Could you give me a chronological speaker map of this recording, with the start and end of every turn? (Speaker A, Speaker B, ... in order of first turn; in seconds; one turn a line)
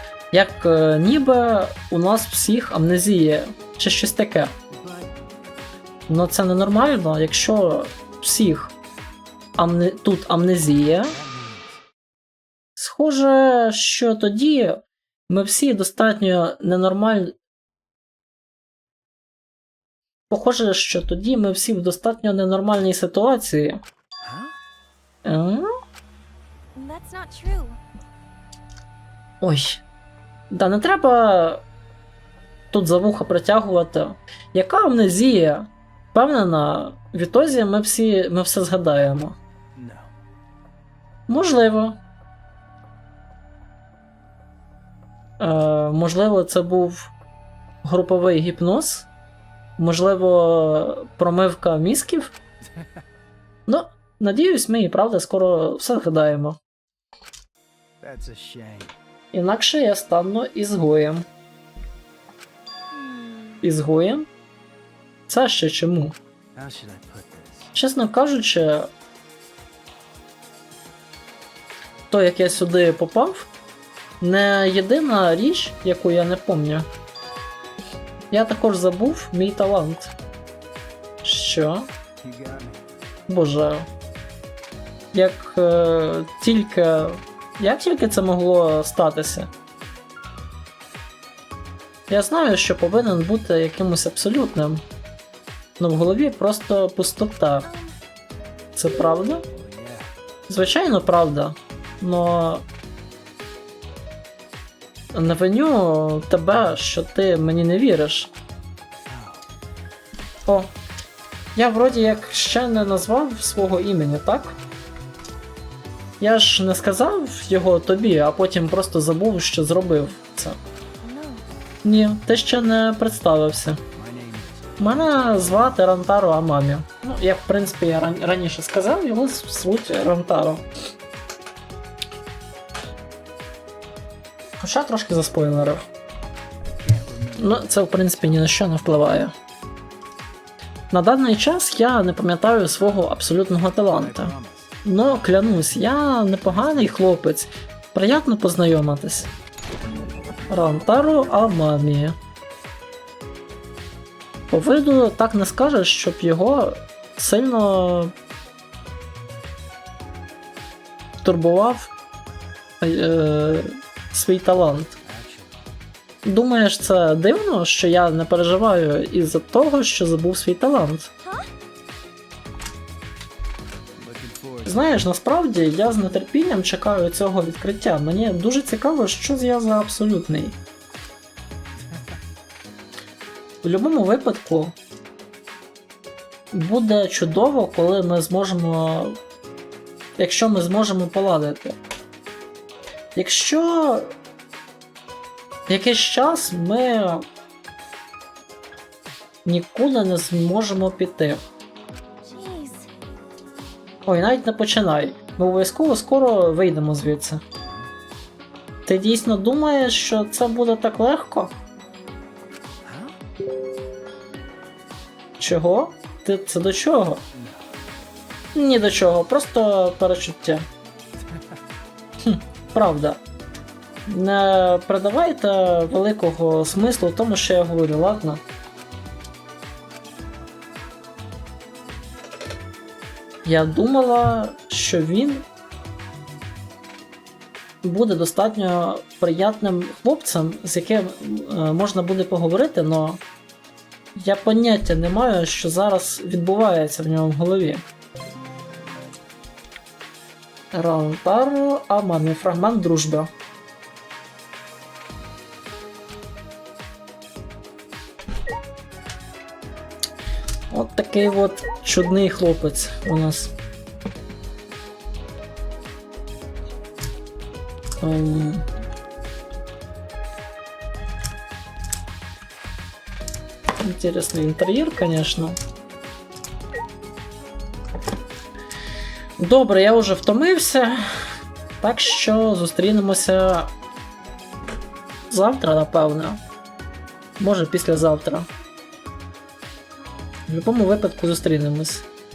Speaker A: 0.3-4.5
Speaker B: 4.7-5.1
Speaker A: 6.1-8.7
Speaker A: 9.6-11.2
Speaker B: 11.1-11.8
Speaker A: 12.8-17.4
Speaker A: 20.3-23.8
Speaker B: 24.2-24.6
Speaker A: 25.2-25.7
Speaker C: 26.8-27.8
Speaker A: 29.4-29.8
Speaker A: 30.5-31.6
Speaker A: 32.7-39.4
Speaker B: 39.8-40.1
Speaker A: 41.3-42.0
Speaker A: 45.4-47.1
Speaker A: 47.8-49.1
Speaker A: 49.8-52.3
Speaker B: 52.6-53.0
Speaker A: 53.7-56.6
Speaker B: 58.0-59.0
Speaker A: 59.3-61.3
Speaker C: 62.9-63.6
Speaker A: 63.6-64.3
Speaker A: 65.3-66.2
Speaker B: 66.5-67.8
Speaker A: 67.8-68.9
Speaker A: 72.1-73.5
Speaker A: 74.2-76.9
Speaker A: 78.3-80.1
Speaker A: 81.2-81.9
Speaker B: 82.2-82.8
Speaker A: 83.3-83.9
Speaker A: 85.1-89.5
Speaker A: 92.1-94.8
Speaker A: 95.8-97.7
Speaker C: 97.6-98.0
Speaker A: 98.8-99.4
Speaker B: 99.5-100.1
Speaker A: 100.5-102.7
Speaker A: 105.1-108.3
Speaker B: 109.1-109.4
Speaker A: 111.5-114.6
Speaker A: 116.2-120.6
Speaker C: 121.0-121.5
Speaker A: 121.8-123.8
Speaker B: 123.9-125.9
Speaker A: 124.8-130.7
Speaker A: 134.6-135.8
Speaker B: 136.8-138.8
Speaker A: 137.4-139.3
Speaker A: 140.9-149.3
Speaker B: 143.9-145.8
Speaker B: 146.4-147.0
Speaker A: 150.5-152.2
Speaker A: 154.5-158.1
Speaker A: 161.2-161.9
Speaker A: 162.8-165.0
Speaker B: 165.0-165.6
Speaker A: 166.2-171.1
Speaker C: 171.2-171.5
Speaker B: 174.0-175.1
Speaker A: 174.7-180.6
Speaker B: 181.9-182.2
Speaker A: 183.6-184.8
Speaker A: 186.5-189.2
Speaker A: 190.2-191.8
Speaker A: 193.2-194.1
Speaker A: 195.7-197.3
Speaker A: 199.4-201.4
Speaker C: 202.2-202.9
Speaker A: 204.1-207.4
Speaker B: 207.6-207.9
Speaker A: 208.9-211.5
Speaker B: 212.8-213.2
Speaker A: 215.4-217.2
Speaker B: 217.3-217.8
Speaker A: 218.6-220.7
Speaker B: 221.2-221.6
Speaker A: 222.2-223.2
Speaker A: 224.1-228.4
Speaker A: 233.4-235.4
Speaker A: 237.8-243.2
Speaker A: 244.2-247.8
Speaker A: 250.7-253.3
Speaker A: 260.7-263.5
Speaker A: 268.0-268.7
Speaker A: 273.8-275.6
Speaker A: 279.4-283.7
Speaker A: 285.3-286.4
Speaker A: 287.4-288.5
Speaker A: 290.5-292.1